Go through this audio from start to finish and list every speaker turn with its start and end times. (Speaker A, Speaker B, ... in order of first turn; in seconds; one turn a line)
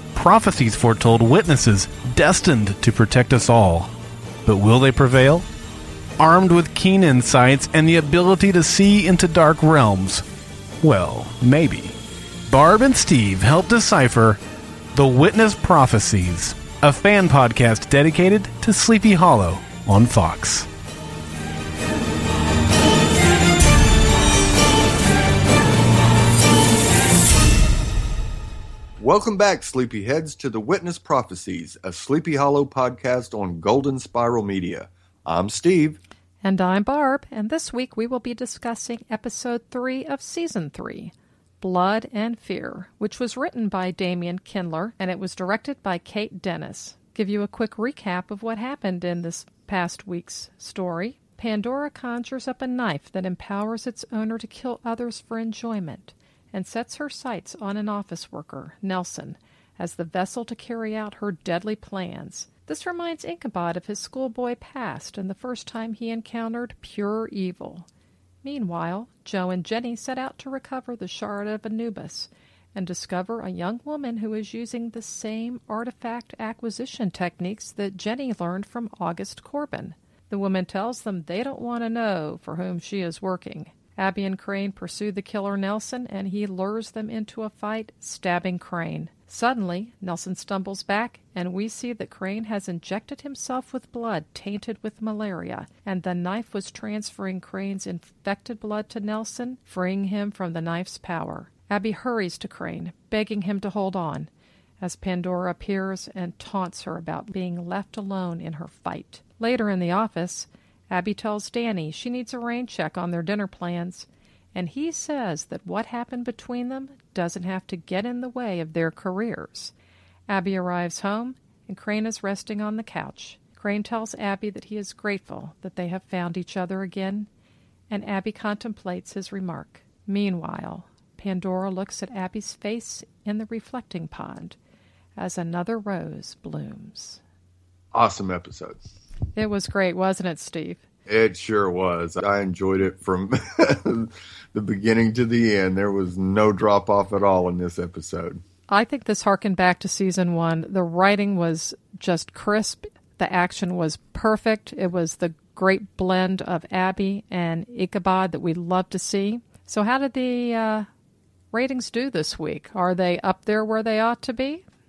Speaker A: 0.1-3.9
Speaker A: 4.5-5.5
Speaker A: 6.2-10.2
Speaker A: 10.8-11.9
Speaker A: 12.5-14.4
Speaker A: 14.9-20.7
Speaker B: 29.0-36.0
Speaker C: 36.4-67.9
Speaker C: 68.4-104.3
Speaker C: 104.8-119.7
Speaker C: 120.3-127.3
Speaker C: 127.9-134.6
Speaker C: 135.2-137.2
Speaker B: 137.9-138.8
Speaker C: 139.3-140.8
Speaker B: 141.1-148.4
Speaker C: 148.7-160.9
Speaker C: 161.5-164.6